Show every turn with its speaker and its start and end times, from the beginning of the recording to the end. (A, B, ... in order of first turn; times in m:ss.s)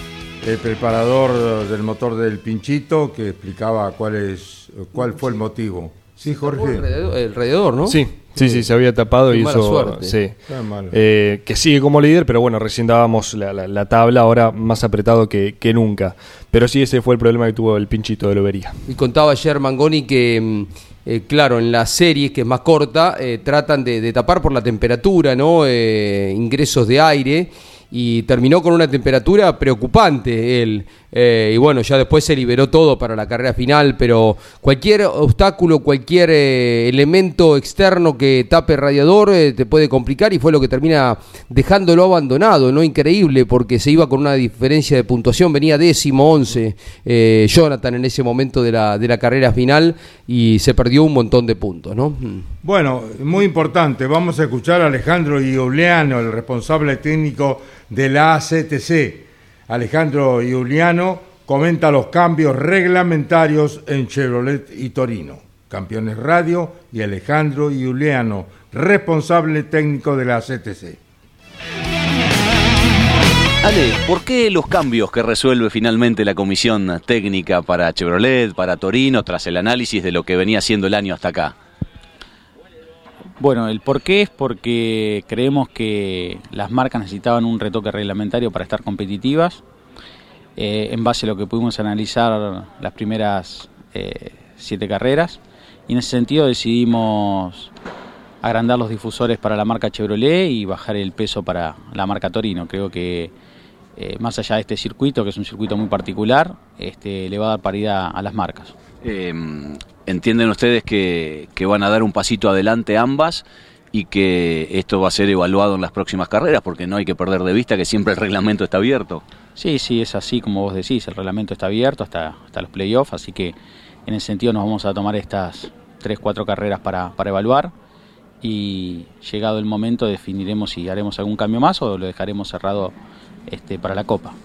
0:00.4-0:06.8 A
0:06.4-0:08.5 B
0:07.9-0:10.4 C
0:09.3-0:10.2 B
0:10.5-0:11.0 A
0:10.9-0:18.8 C
0:18.9-0:52.5 B
0:52.6-1:11.0 A
1:13.6-1:21.6 D
1:23.4-1:29.6 E
1:30.6-1:37.7 E
1:38.4-1:43.3 E
1:44.0-1:48.7 E
1:49.0-1:59.2 D
1:59.6-2:03.6 E
2:04.0-2:07.7 E
2:08.4-2:12.9 E
2:13.5-2:14.3 E